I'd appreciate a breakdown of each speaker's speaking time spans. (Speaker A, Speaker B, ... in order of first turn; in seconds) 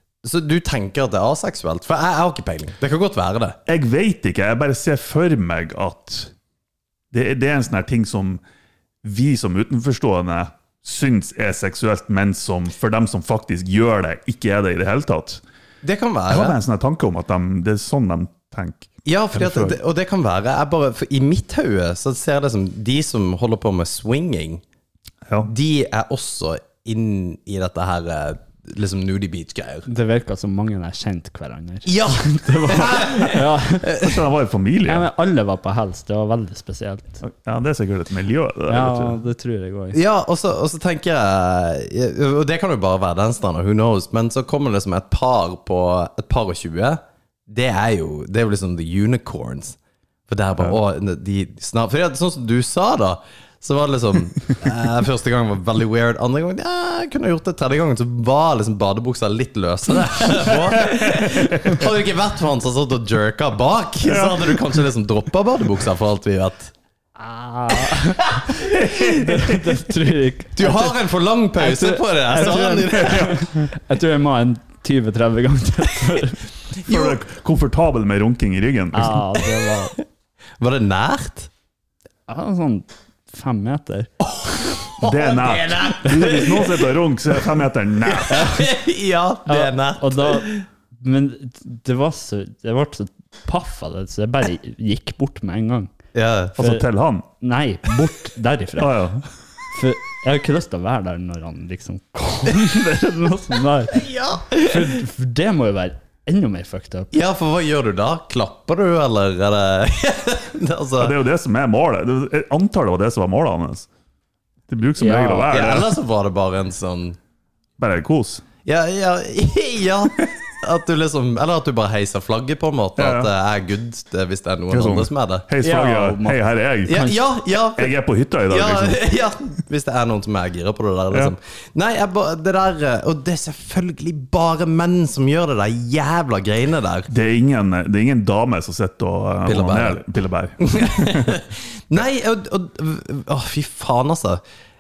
Speaker A: 0.2-3.6, 15.8-16.6, 19.1-24.6, 25.4-29.9, 31.9-34.2, 39.9-49.8, 50.3-66.7, 68.3-68.6, 70.6-73.4, 76.9-77.2, 80.6-81.5, 84.3-87.0, 88.0-90.7, 96.2-96.6, 103.9-104.8, 107.1-111.2, 115.5-117.2, 118.7-125.5, 126.9-128.0, 128.5-137.1, 139.5-140.0, 140.6-144.4
Speaker B: 3.7-6.3, 7.1-8.4, 9.0-15.4, 16.3-19.8, 33.9-35.1, 37.2-39.2, 60.7-61.8, 64.0-64.6, 68.7-69.5, 72.9-73.6, 76.8-79.2, 85.0-88.5, 96.6-97.3, 98.8-99.2, 111.0-113.9, 114.7-116.0, 117.8-118.4, 123.0-123.3, 124.7-127.1, 127.8-129.0, 137.1-141.4
Speaker C: 29.9-33.9, 34.9-37.2, 38.7-40.0, 67.2-71.0, 71.6-76.4, 78.9-80.0, 82.3-84.1, 89.5-95.9, 97.4-99.0, 99.7-107.1, 115.0-115.5, 125.6-126.4